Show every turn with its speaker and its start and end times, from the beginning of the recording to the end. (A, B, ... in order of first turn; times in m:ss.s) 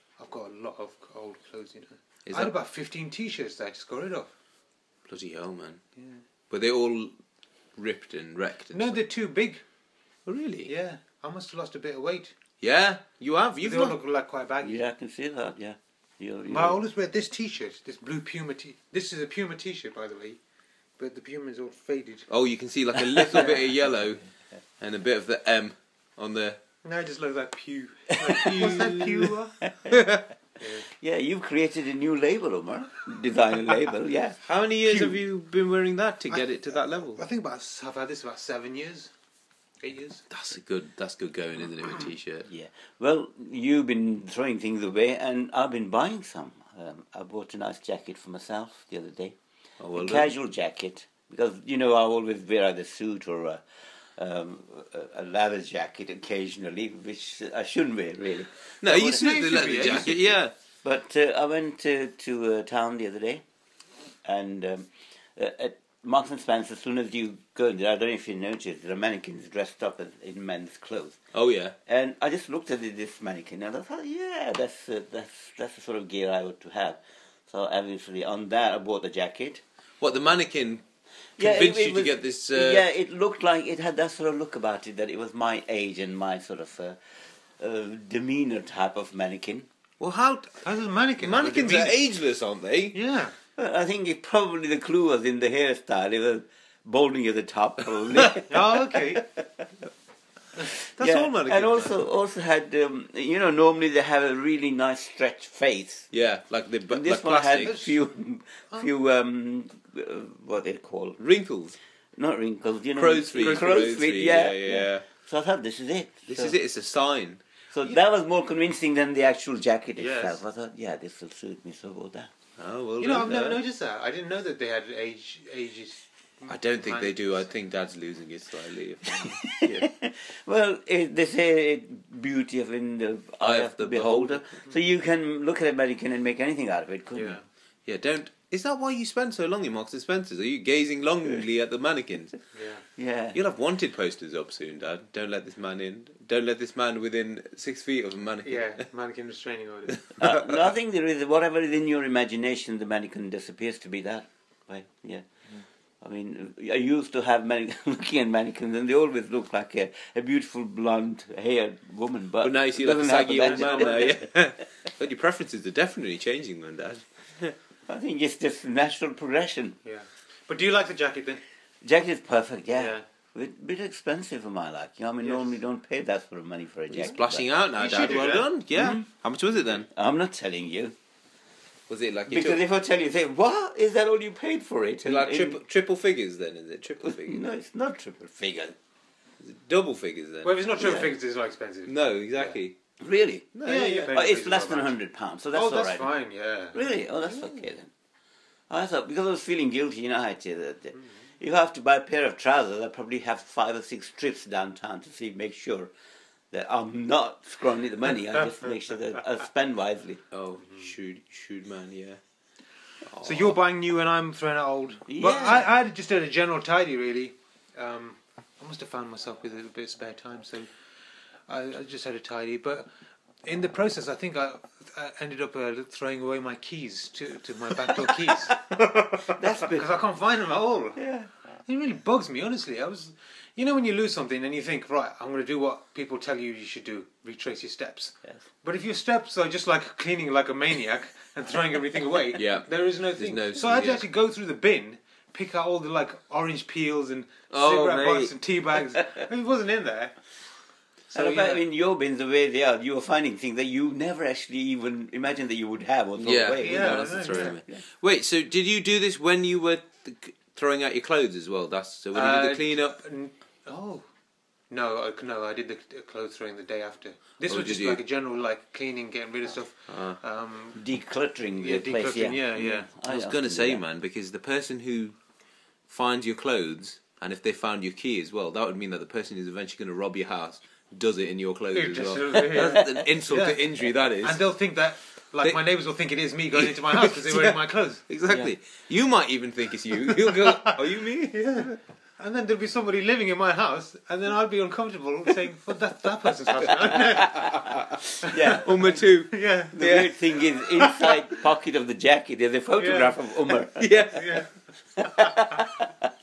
0:00.2-0:04.3 A
0:02.3-0:02.5 B
0:05.1-0:05.8 B
0:06.0-0:06.2 A
0:06.5-0:07.1 B
0:07.8-0:09.0 B
0:08.7-0:09.6 A
0:10.3-0:10.7 B
0:10.6-0:12.3 A
0:12.6-0:14.0 B
0:13.6-0:14.8 A
0:14.6-0:16.8 C
0:16.5-0:20.4 A
0:21.0-0:22.3 A
0:22.3-0:24.3 B
0:24.8-0:26.6 B
0:26.8-0:29.6 A
0:28.3-0:28.8 C
0:28.3-0:29.3 B
0:29.6-0:30.0 C
0:29.9-0:30.2 B
0:30.6-0:30.9 A
0:31.0-0:34.4 C
0:34.4-0:37.2 B
0:34.8-0:35.3 A
0:36.3-0:39.1 A
0:39.8-0:40.2 A
0:40.3-0:42.5 B
0:42.5-0:49.4 C
0:49.8-0:50.3 B
0:49.9-0:53.6 C
0:54.2-1:00.2 C
0:58.8-1:00.5 B
0:59.0-1:00.2 A
1:00.8-1:03.4 C
1:04.2-1:11.2 C
1:11.3-1:11.8 B
1:11.9-1:19.6 C
1:20.0-1:20.8 B
1:21.4-1:22.9 B
1:21.4-1:27.0 C
1:27.6-1:29.7 C
1:30.0-1:30.6 B
1:30.5-1:32.0 A
1:31.2-1:33.0 B
1:32.9-1:33.3 A
1:33.6-1:39.6 C
1:38.4-1:39.2 A
1:40.7-1:42.0 B
1:41.0-1:46.1 C
1:46.1-1:47.8 B
1:46.9-1:51.2 C
1:47.6-1:48.0 A
1:51.2-1:51.8 B
1:52.2-1:56.6 C
1:52.9-1:55.1 B
1:56.3-1:57.4 B
1:57.7-2:02.3 C
2:00.0-2:00.4 A
2:02.6-2:03.6 B
2:03.0-2:07.5 A
2:06.5-2:09.9 B
2:09.2-2:17.4 C
2:13.4-2:14.4 B
2:17.2-2:17.4 A
2:17.9-2:22.4 B
2:22.5-2:22.8 A
2:23.0-2:23.4 C
2:23.4-2:28.8 B
2:28.4-2:30.0 A
2:30.2-2:30.7 B
2:30.2-2:35.2 C
2:36.0-2:44.3 C
2:42.4-2:47.6 B
2:43.5-2:44.2 A
2:47.9-2:49.8 C
2:49.8-2:51.4 A
2:51.8-2:57.5 C
2:52.7-2:53.0 A
2:55.2-2:55.5 A
2:56.9-2:59.9 B
2:57.7-2:58.5 A
2:58.7-2:59.1 C
2:59.8-3:01.0 C
3:01.9-3:02.6 B
3:02.3-3:05.6 C
3:05.0-3:07.4 B
3:07.0-3:08.8 C
3:09.4-3:11.0 B
3:10.4-3:12.6 A
3:10.8-3:11.1 C
3:11.9-3:12.8 B
3:13.0-3:16.1 C
3:13.5-3:14.3 B
3:13.6-3:15.0 A
3:15.5-3:16.8 A
3:16.7-3:17.9 C
3:18.7-3:25.9 C
3:26.5-3:30.2 C
3:30.3-3:32.2 B
3:33.1-3:33.6 B
3:33.2-3:40.7 A
3:35.1-3:35.7 C
3:41.5-3:42.9 A
3:43.4-3:51.0 A
3:47.9-3:49.9 C
3:51.0-3:51.3 C
3:51.7-4:10.2 A
4:02.4-4:04.1 B
4:07.5-4:08.4 B
4:11.1-4:11.6 A
4:11.1-4:17.8 C
4:16.2-4:22.9 B
4:16.6-4:17.6 A
4:22.1-4:24.0 A
4:24.7-4:30.8 A
4:27.5-4:28.0 B
4:29.9-4:30.2 B
4:30.8-4:33.8 C
4:31.6-4:32.9 A
4:33.1-4:35.2 B
4:35.9-4:44.4 B
4:41.7-4:43.6 A
4:44.2-4:48.0 A
4:46.5-4:51.8 B
4:50.0-4:57.5 A
4:57.2-5:00.2 B
4:58.2-4:58.6 A
4:58.2-4:58.9 C
4:59.3-4:59.8 A
4:59.7-5:03.9 C
5:00.8-5:01.1 A
5:02.8-5:03.2 A
5:03.8-5:04.5 B
5:04.1-5:04.5 A
5:05.0-5:05.9 C